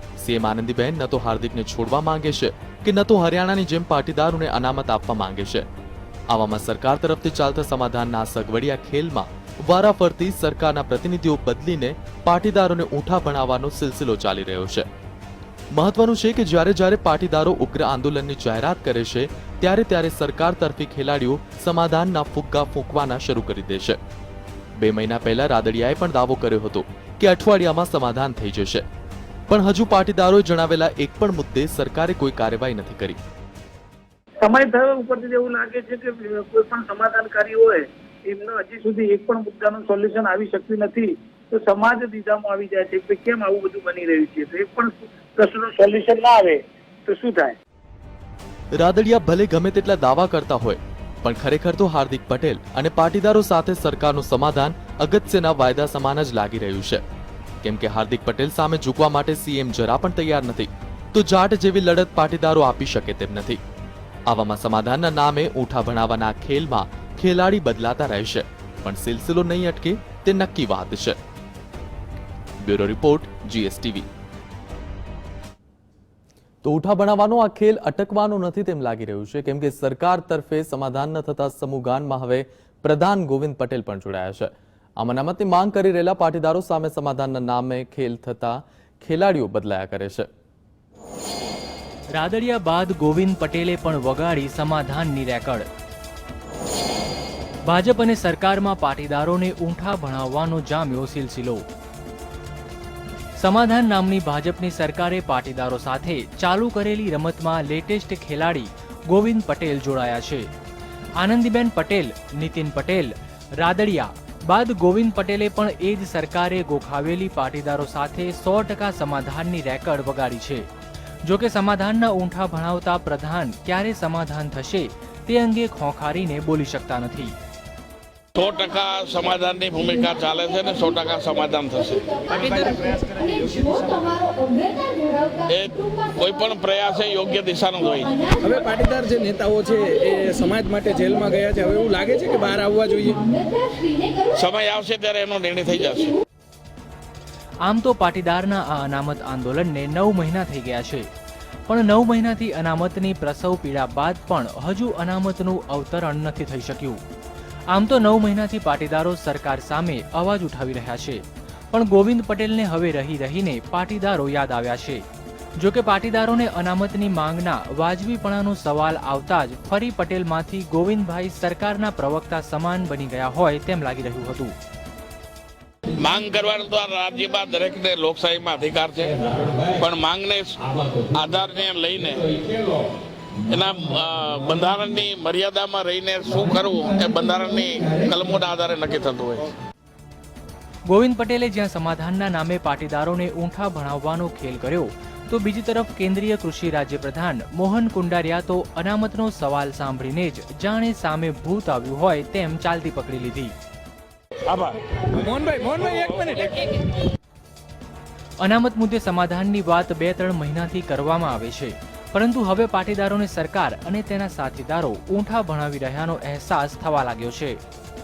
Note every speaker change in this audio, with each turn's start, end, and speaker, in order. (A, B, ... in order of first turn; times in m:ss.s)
0:00.2-0:05.7 A
0:06.3-0:14.9 A
0:15.7-0:24.0 A
0:24.8-0:28.9 A
0:29.5-0:33.2 A
0:34.4-0:47.6 B
0:48.8-0:57.0 A
0:57.6-1:03.6 A
1:04.3-1:11.2 A
1:12.6-1:14.1 A
1:16.6-1:30.3 A
1:32.2-1:35.6 C
1:37.7-1:41.6 C
1:43.4-1:50.4 C
1:51.2-2:00.6 C
2:01.3-2:07.3 C
2:08.3-2:12.1 D
2:12.3-2:14.0 E
2:15.4-2:18.2 D
2:18.4-2:23.3 E
2:24.2-2:26.2 D
2:27.6-2:31.1 C
2:31.7-2:37.0 C
2:37.7-2:45.0 C
2:45.6-2:54.5 C
2:56.0-3:02.8 D
3:03.5-3:09.5 D
3:10.9-3:23.5 C
3:24.5-3:26.7 E
3:28.4-3:37.6 C